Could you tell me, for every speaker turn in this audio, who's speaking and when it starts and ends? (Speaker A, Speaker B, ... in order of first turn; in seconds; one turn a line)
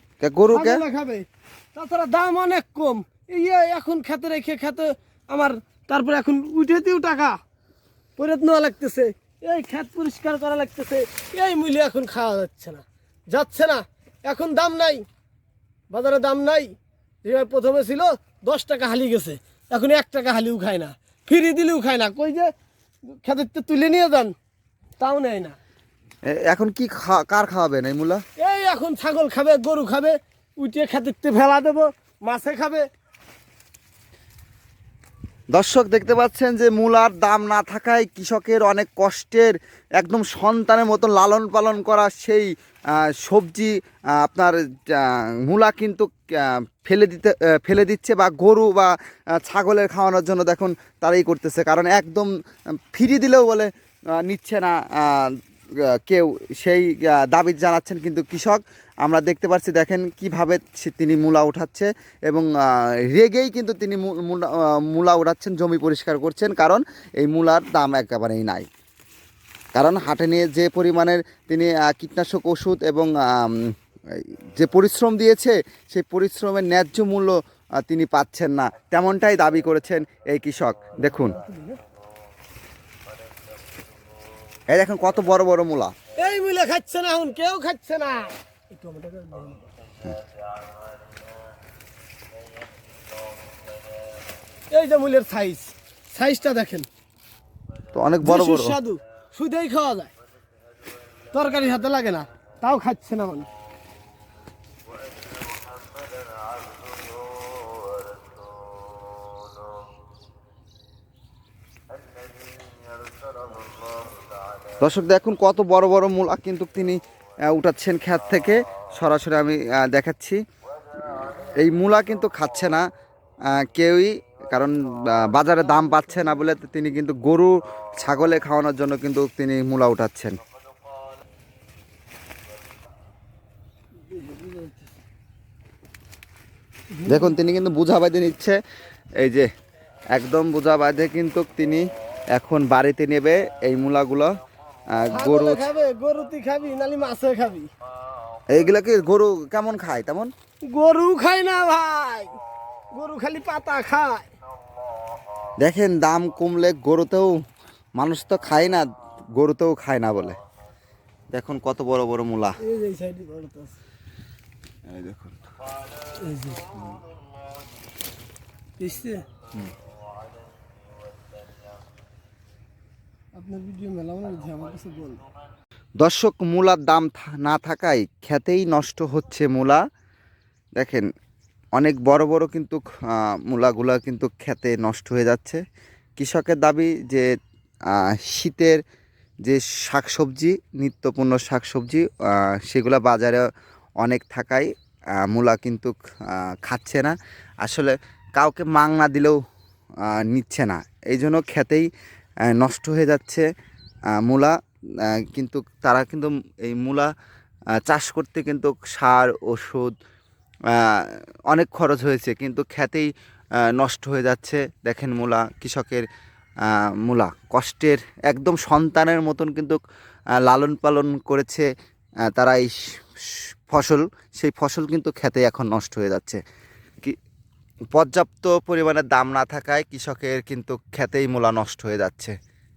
Speaker A: 0.2-0.8
Speaker B: 0.5-7.3
Speaker B: 8.2-15.0
Speaker B: 15.9-16.7
Speaker B: 17.2-22.5
Speaker B: 23.1-24.3
Speaker B: 25.0-25.6
Speaker A: 26.3-28.2
Speaker B: 28.4-32.9
Speaker A: 35.5-52.3
Speaker A: 52.9-55.4
Speaker A: 55.9-68.7
Speaker A: 69.7-81.3
Speaker B: 81.0-81.8
Speaker A: 84.7-85.9
Speaker B: 86.2-89.7
Speaker B: 94.7-96.9
Speaker A: 97.9-98.7
Speaker B: 98.2-100.1
Speaker B: 101.3-103.5
Speaker A: 114.8-120.4
Speaker A: 121.1-122.8
Speaker A: 123.5-130.4
Speaker B: 134.1-134.9
Speaker B: 136.9-137.3
Speaker A: 137.1-138.6
Speaker A: 139.2-139.5
Speaker A: 140.1-144.3
Speaker A: 145.0-145.7
Speaker B: 145.1-147.7
Speaker A: 148.5-150.3
Speaker B: 150.7-152.3
Speaker B: 152.9-154.3
Speaker A: 155.6-157.3
Speaker A: 158.0-160.4
Speaker A: 161.3-162.6
Speaker B: 162.6-163.8
Speaker A: 164.9-165.4
Speaker B: 166.2-166.7
Speaker B: 168.8-169.2
Speaker B: 173.3-175.2
Speaker A: 176.0-179.8
Speaker A: 180.8-181.1
Speaker A: 181.8-185.6
Speaker A: 186.2-187.3
Speaker A: 187.9-188.8
Speaker A: 189.4-193.4
Speaker A: 194.0-194.7
Speaker A: 195.2-199.4
Speaker A: 200.1-201.9
Speaker A: 202.5-203.4
Speaker A: 204.2-204.6
Speaker A: 205.1-207.1
Speaker A: 207.8-209.9
Speaker A: 210.7-213.1
Speaker A: 213.7-216.0
Speaker A: 216.7-219.8
Speaker A: 220.4-221.7
Speaker A: 222.3-222.8
Speaker A: 223.3-226.4
Speaker A: 227.9-232.3